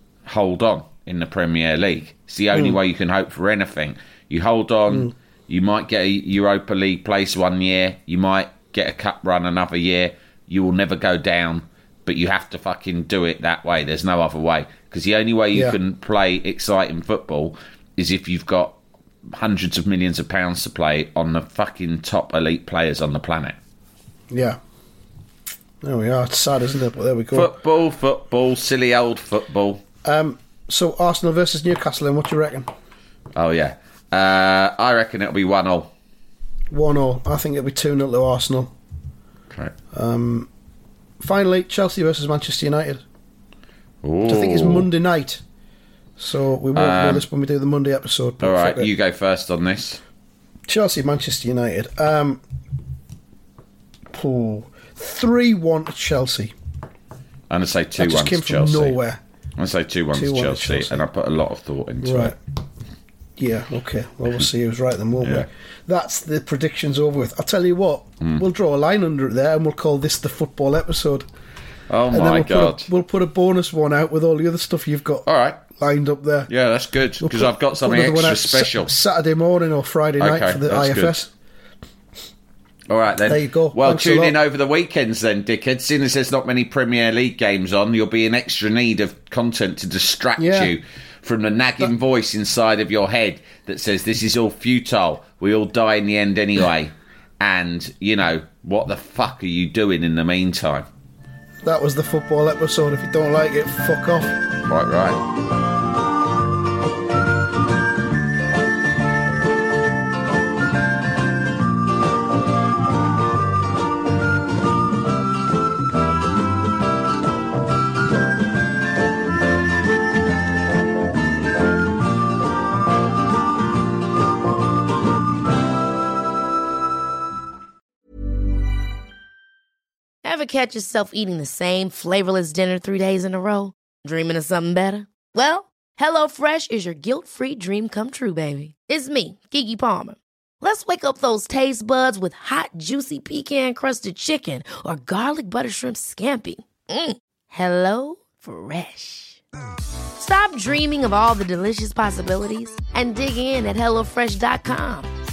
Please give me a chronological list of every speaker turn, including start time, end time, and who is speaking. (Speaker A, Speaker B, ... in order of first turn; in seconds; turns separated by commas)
Speaker A: 0.2-18.8, Speaker B: 2.5-2.8, Speaker A: 19.3-23.6, Speaker B: 24.3-24.6, Speaker B: 25.8-27.5, Speaker A: 27.3-29.8, Speaker B: 30.0-32.7, Speaker A: 33.4-35.9, Speaker B: 36.7-38.7, Speaker B: 39.9-40.5, Speaker B: 41.2-43.0, Speaker A: 44.0-44.9, Speaker B: 44.3-45.4, Speaker B: 46.2-48.9, Speaker A: 46.7-47.3, Speaker A: 48.4-50.0, Speaker B: 50.7-52.4, Speaker B: 54.1-56.5, Speaker A: 57.5-59.0, Speaker B: 58.0-59.2, Speaker A: 59.6-62.4, Speaker B: 60.1-61.0, Speaker B: 62.0-62.4, Speaker B: 63.4-71.3, Speaker A: 65.2-65.5, Speaker A: 71.9-72.9, Speaker B: 72.1-76.5, Speaker A: 75.3-75.6, Speaker A: 76.5-78.9, Speaker B: 77.2-81.3, Speaker A: 80.2-81.2, Speaker A: 82.9-100.9, Speaker B: 83.2-84.4, Speaker B: 90.4-90.7, Speaker B: 101.6-104.4, Speaker A: 104.7-105.2, Speaker C: 130.2-149.4, Speaker C: 150.2-155.1